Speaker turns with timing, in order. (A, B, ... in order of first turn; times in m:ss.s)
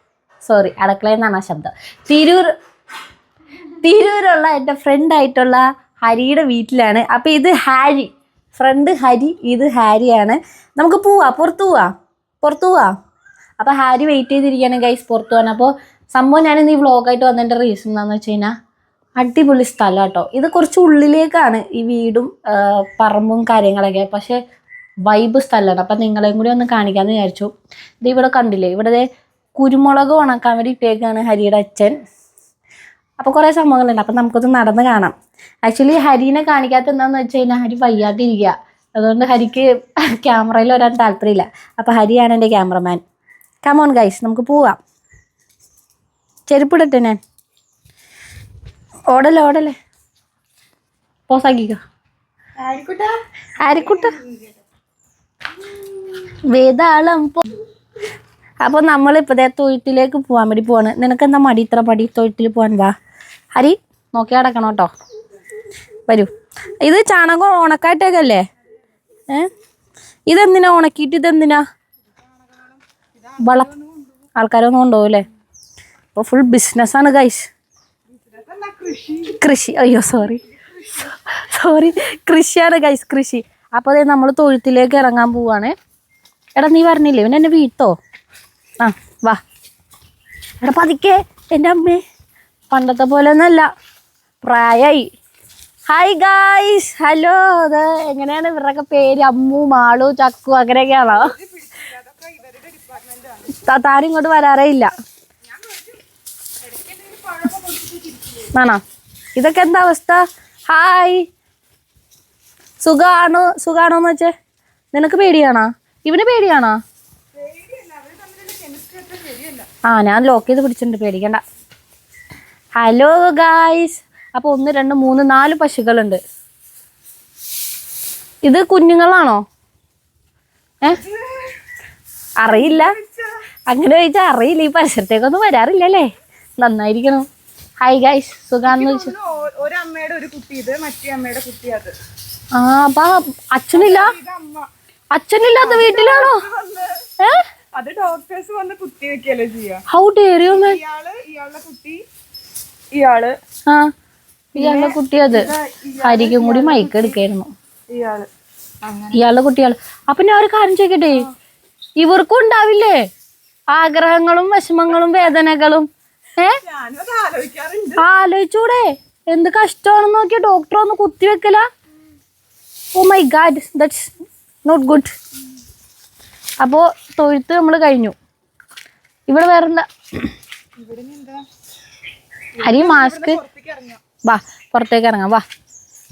0:00.4-0:02.5 A
0:03.8-0:12.9 A
0:13.6-0:18.5 A
0:19.2-0:24.4 A
0:25.1-0:27.5 A
0:28.0-0:32.0 A
0:33.2-0:43.0 A
0:43.6-0:44.8 A
0:46.5-0:47.2 A
0:49.1-0:49.8 A
0:51.3-0:51.8 A
0:52.6-0:54.6 B
0:53.6-0:54.2 A
0:56.2-0:57.6 A
0:58.6-1:03.0 A
1:03.6-1:04.9 A
1:06.1-1:08.4 A
1:10.3-1:11.6 A
1:12.3-1:14.1 B
1:13.4-1:13.7 A
1:14.4-1:15.3 A
1:16.2-1:17.5 A
1:18.1-1:19.4 B
1:19.4-1:20.5 A
1:20.5-1:21.1 B
1:21.0-1:25.8 A
1:26.6-1:28.0 A
1:28.8-1:29.4 A
1:30.6-1:32.0 A
1:32.7-1:33.7 A
1:34.4-1:35.1 A
1:35.9-1:41.3 A
1:41.0-1:43.6 B
1:43.5-1:44.9 A
1:45.4-1:46.0 B
1:46.6-1:48.5 B
1:48.5-1:48.8 A
1:49.4-1:51.3 A
1:52.8-1:54.3 A
1:54.9-1:56.8 A
1:57.3-1:59.7 B
1:59.8-2:01.4 A
2:02.8-2:06.2 A
2:08.4-2:09.4 A
2:10.9-2:11.6 B
2:12.4-2:13.0 A
2:12.5-2:13.4 B
2:13.7-2:16.1 A
2:16.6-2:17.2 A
2:17.8-2:19.1 A
2:18.7-2:21.9 B
2:22.6-2:24.1 A
2:23.7-2:24.7 B
2:25.1-2:26.4 A
2:25.6-2:27.1 B
2:27.8-2:29.8 B
2:29.9-2:30.8 A
2:30.5-2:32.0 B
2:32.9-2:33.4 B
2:34.6-2:37.5 A
2:34.6-2:37.2 B
2:37.9-2:38.3 B
2:38.8-2:39.2 B
2:39.1-2:41.3 A
2:42.0-2:43.0 A
2:43.7-2:46.6 A
2:46.6-2:48.0 B
2:48.0-2:51.6 A
2:53.0-2:54.1 A
2:54.6-2:55.1 A
2:56.6-2:58.2 A
2:59.3-2:59.9 A
3:00.8-3:01.4 B
3:02.6-3:04.0 B
3:02.6-3:03.4 A
3:04.2-3:05.4 A